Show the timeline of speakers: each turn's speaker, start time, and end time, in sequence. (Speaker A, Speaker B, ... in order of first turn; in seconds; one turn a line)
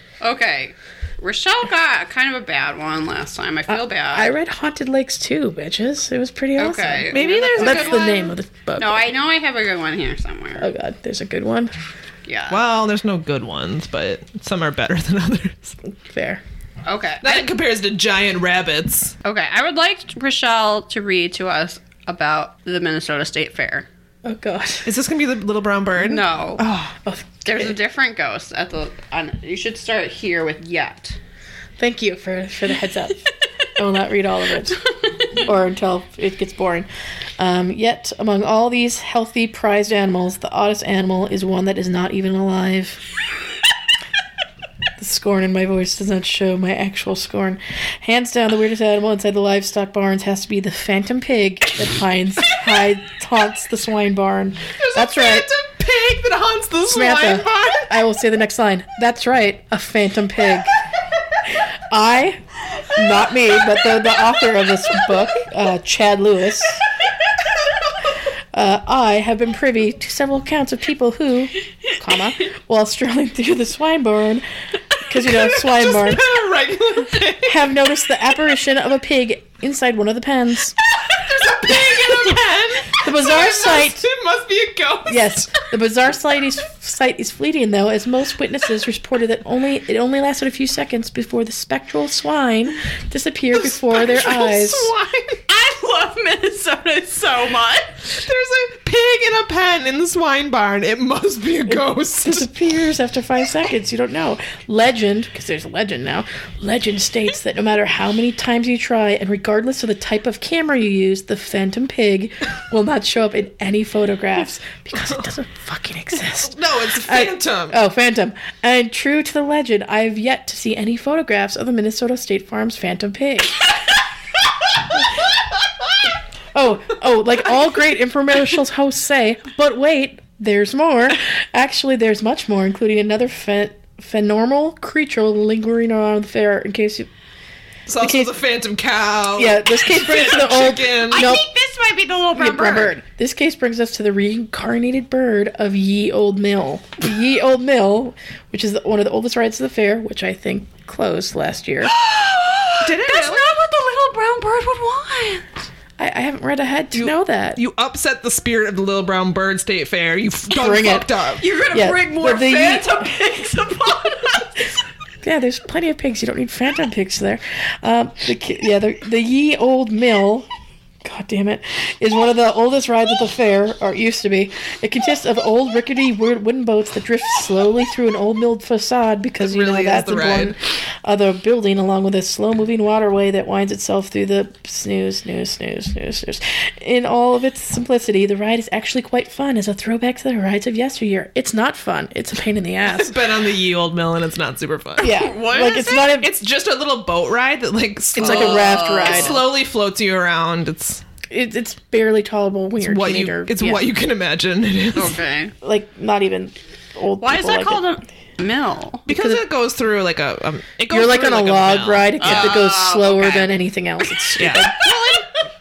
Speaker A: 0.2-4.3
Speaker B: 3.7-9.1
Speaker A: 6.6-8.2
Speaker C: 7.1-8.3
Speaker A: 8.8-10.7
Speaker B: 10.6-11.7
Speaker A: 12.3-12.6
Speaker C: 12.5-15.8
Speaker B: 15.9-16.4
Speaker A: 16.9-17.5
Speaker C: 17.2-19.2
Speaker A: 19.2-23.9
Speaker B: 24.2-24.9
Speaker C: 24.9-26.9
Speaker A: 26.0-26.6
Speaker B: 27.0-27.7
Speaker A: 27.4-31.2
Speaker B: 31.8-33.2
Speaker B: 33.8-34.8
Speaker B: 35.4-36.9
Speaker B: 37.4-43.0
Speaker B: 45.0-55.5
Speaker C: 54.8-58.0
Speaker B: 56.9-60.7
Speaker B: 61.9-66.8
Speaker B: 68.5-74.5
Speaker B: 75.1-76.2
Speaker C: 75.4-77.7
Speaker B: 77.5-80.8
Speaker C: 81.1-85.4
Speaker B: 81.7-82.4
Speaker B: 83.0-84.0
Speaker B: 85.1-94.9
Speaker C: 93.5-95.4
Speaker A: 95.5-98.0
Speaker C: 98.1-102.5
Speaker B: 101.7-123.6
Speaker C: 116.5-117.8
Speaker B: 126.5-137.1
Speaker C: 137.9-141.3
Speaker B: 138.0-138.3
Speaker B: 139.4-141.4
Speaker A: 141.1-143.0
Speaker B: 142.4-151.9
Speaker A: 151.8-155.5
Speaker C: 152.8-153.4
Speaker B: 156.0-157.6
Speaker C: 156.9-161.4
Speaker B: 160.5-161.1
Speaker A: 161.4-164.6
Speaker B: 161.7-163.1
Speaker B: 165.2-170.5
Speaker B: 171.0-193.2
Speaker C: 179.4-180.6
Speaker C: 192.9-195.1
Speaker A: 195.0-196.2
Speaker B: 195.0-196.3
Speaker C: 196.2-201.0
Speaker B: 198.2-199.4
Speaker A: 198.2-199.4
Speaker B: 201.3-203.8
Speaker C: 202.8-205.2
Speaker A: 204.9-205.5
Speaker B: 205.6-207.8
Speaker A: 207.2-209.1
Speaker C: 209.1-212.6
Speaker B: 209.1-209.4
Speaker B: 210.9-214.9
Speaker A: 212.2-213.5
Speaker C: 214.4-215.2
Speaker A: 214.5-215.2